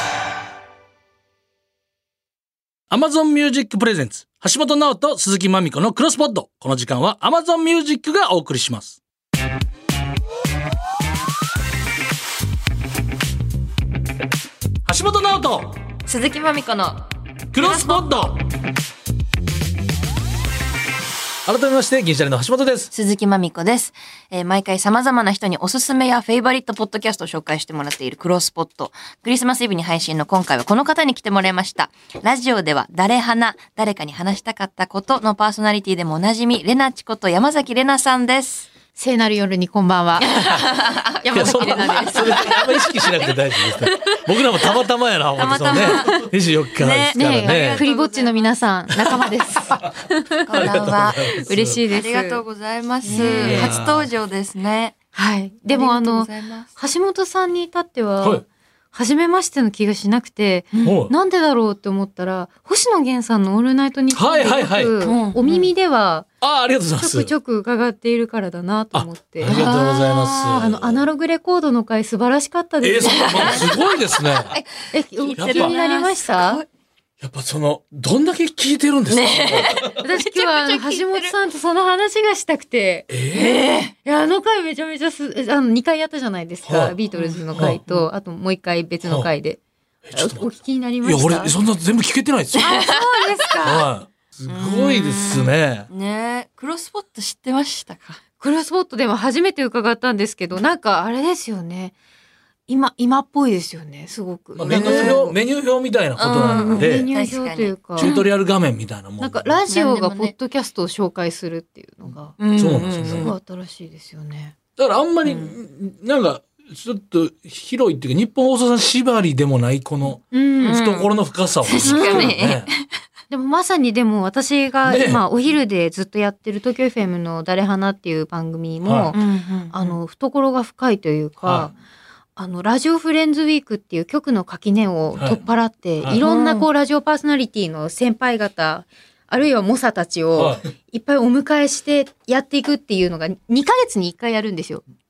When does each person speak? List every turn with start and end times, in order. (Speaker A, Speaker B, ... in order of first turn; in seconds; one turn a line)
Speaker A: 2.9-9.0
Speaker A: 14.9-15.8
Speaker B: 16.1-17.0
Speaker A: 17.5-18.4
Speaker B: 17.5-18.1
Speaker A: 21.5-22.9
Speaker B: 22.9-38.7
Speaker C: 39.0-40.3
Speaker B: 40.2-44.2
Speaker A: 40.3-40.7
Speaker C: 41.2-42.6
Speaker A: 41.3-47.8
Speaker B: 45.4-48.5
Speaker C: 47.1-50.3
Speaker B: 50.5-55.0
Speaker A: 50.5-51.8
Speaker C: 51.5-52.4
Speaker C: 53.1-53.7
Speaker A: 53.1-54.1
Speaker C: 55.1-66.3
Speaker B: 55.7-56.7
Speaker A: 60.8-61.1
Speaker A: 64.1-64.9
Speaker B: 65.0-65.7
Speaker A: 66.4-67.3
Speaker C: 67.0-69.6
Speaker A: 68.9-71.0
Speaker B: 69.5-70.2
Speaker C: 70.4-73.7
Speaker A: 72.8-74.5
Speaker B: 73.2-74.7
Speaker C: 74.9-76.6
Speaker B: 75.2-76.7
Speaker A: 75.4-75.8
Speaker A: 77.2-80.0
Speaker B: 79.1-81.3
Speaker C: 80.0-83.1
Speaker A: 83.1-83.6
Speaker B: 83.3-83.9
Speaker C: 84.0-89.6
Speaker A: 86.7-86.9
Speaker B: 87.2-88.1
Speaker A: 89.0-89.3
Speaker A: 90.0-92.7
Speaker C: 90.1-91.5
Speaker C: 92.6-93.9
Speaker B: 92.6-93.0
Speaker A: 93.6-95.9
Speaker B: 94.5-98.2
Speaker C: 98.4-102.0
Speaker C: 102.7-105.4
Speaker A: 104.5-107.1
Speaker B: 104.7-105.2
Speaker B: 106.2-108.3
Speaker C: 106.5-108.1
Speaker A: 108.0-109.6
Speaker C: 109.2-112.4
Speaker B: 109.7-110.3
Speaker B: 112.4-113.3
Speaker A: 112.5-113.3
Speaker C: 113.1-114.5
Speaker A: 114.8-122.7
Speaker C: 120.3-120.8
Speaker B: 120.6-121.1
Speaker B: 121.7-122.8
Speaker C: 121.8-122.3
Speaker C: 123.3-129.2
Speaker A: 124.8-125.2
Speaker A: 128.8-129.1
Speaker B: 129.1-130.0
Speaker C: 129.7-131.7
Speaker A: 131.4-131.7
Speaker C: 132.4-144.8
Speaker A: 135.1-135.4
Speaker B: 136.2-136.7
Speaker A: 140.4-140.7